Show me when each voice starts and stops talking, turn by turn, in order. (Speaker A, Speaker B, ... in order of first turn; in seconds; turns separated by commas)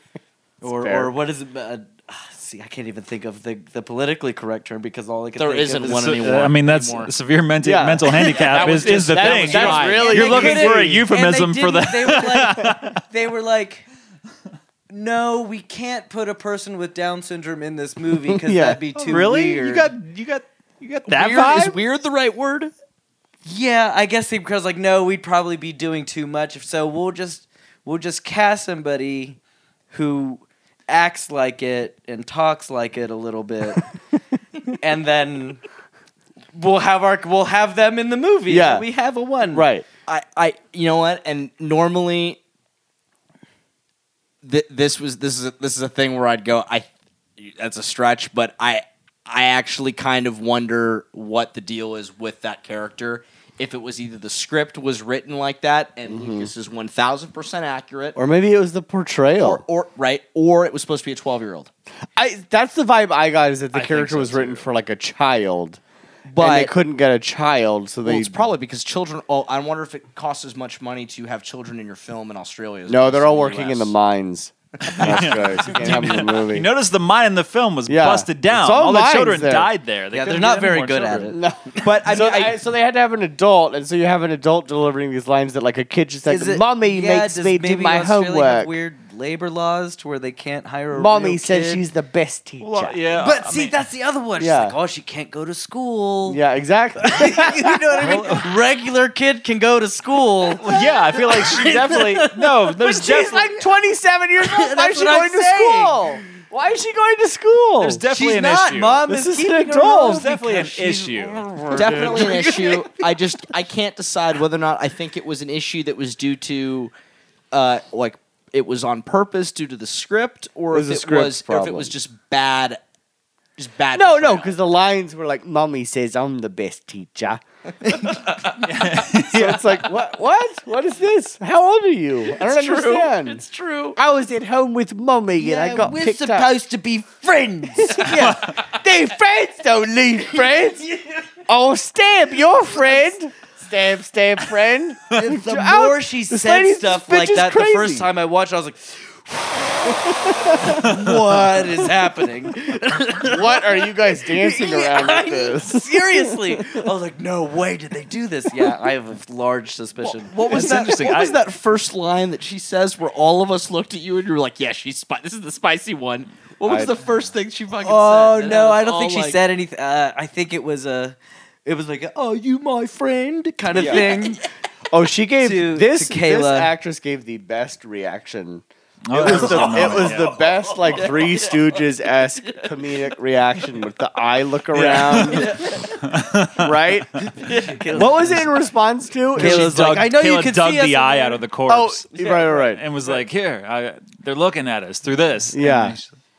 Speaker A: 0.6-1.1, Speaker B: 0.6-6.3, Speaker C: 5.4-7.1, Speaker D: 5.8-13.0, Speaker A: 7.6-11.1, Speaker C: 8.2-10.2, Speaker B: 8.2-8.8, Speaker B: 9.5-13.8, Speaker B: 14.9-19.9, Speaker A: 18.3-18.8, Speaker D: 18.9-21.8, Speaker C: 21.1-22.7, Speaker B: 23.4-29.4, Speaker B: 29.9-33.8, Speaker B: 34.8-35.6, Speaker B: 36.5-39.7, Speaker A: 38.5-38.9, Speaker A: 39.5-39.9, Speaker C: 40.1-42.4, Speaker C: 44.4-58.2, Speaker A: 56.1-56.5, Speaker A: 58.1-59.6, Speaker C: 59.4-61.7, Speaker A: 62.1-65.8, Speaker D: 63.7-64.7, Speaker C: 66.3-66.7, Speaker A: 66.4-68.5, Speaker C: 68.0-73.9, Speaker A: 72.9-76.7, Speaker D: 74.8-81.3, Speaker A: 77.8-79.7, Speaker B: 80.1-81.4, Speaker A: 81.3-88.7, Speaker C: 81.8-82.6, Speaker B: 86.3-91.8, Speaker A: 90.9-93.0, Speaker D: 92.6-93.8, Speaker B: 93.2-96.4, Speaker A: 94.4-94.8, Speaker A: 96.3-98.2, Speaker B: 97.0-103.4, Speaker D: 98.0-98.5, Speaker D: 100.6-103.5, Speaker A: 102.8-108.0, Speaker B: 104.4-106.3, Speaker D: 107.8-109.0, Speaker B: 108.1-113.0, Speaker A: 109.1-110.3, Speaker D: 110.0-111.4, Speaker A: 111.5-112.4, Speaker C: 111.7-116.9, Speaker C: 117.5-122.8, Speaker A: 120.7-121.9, Speaker C: 123.6-124.5, Speaker A: 123.9-127.4, Speaker D: 128.4-129.9, Speaker A: 129.0-136.5, Speaker C: 132.3-134.0, Speaker B: 135.4-138.6, Speaker A: 137.8-140.9, Speaker D: 138.2-138.5, Speaker B: 140.9-141.2, Speaker A: 141.4-148.1, Speaker B: 145.1-160.7, Speaker A: 149.8-151.7, Speaker A: 153.2-156.8, Speaker C: 160.0-169.4, Speaker D: 160.5-161.4, Speaker A: 166.7-166.9, Speaker B: 167.8-174.4, Speaker A: 173.7-174.2, Speaker C: 173.8-174.2, Speaker A: 174.9-185.6, Speaker B: 175.4-176.7, Speaker D: 179.1-180.4, Speaker B: 179.2-181.5, Speaker C: 180.9-181.6, Speaker D: 184.7-186.9, Speaker B: 185.4-186.0, Speaker A: 186.5-187.3, Speaker B: 187.4-188.5, Speaker A: 187.9-189.8, Speaker B: 189.3-191.4, Speaker D: 189.3-196.1, Speaker A: 191.7-192.8, Speaker A: 195.5-196.0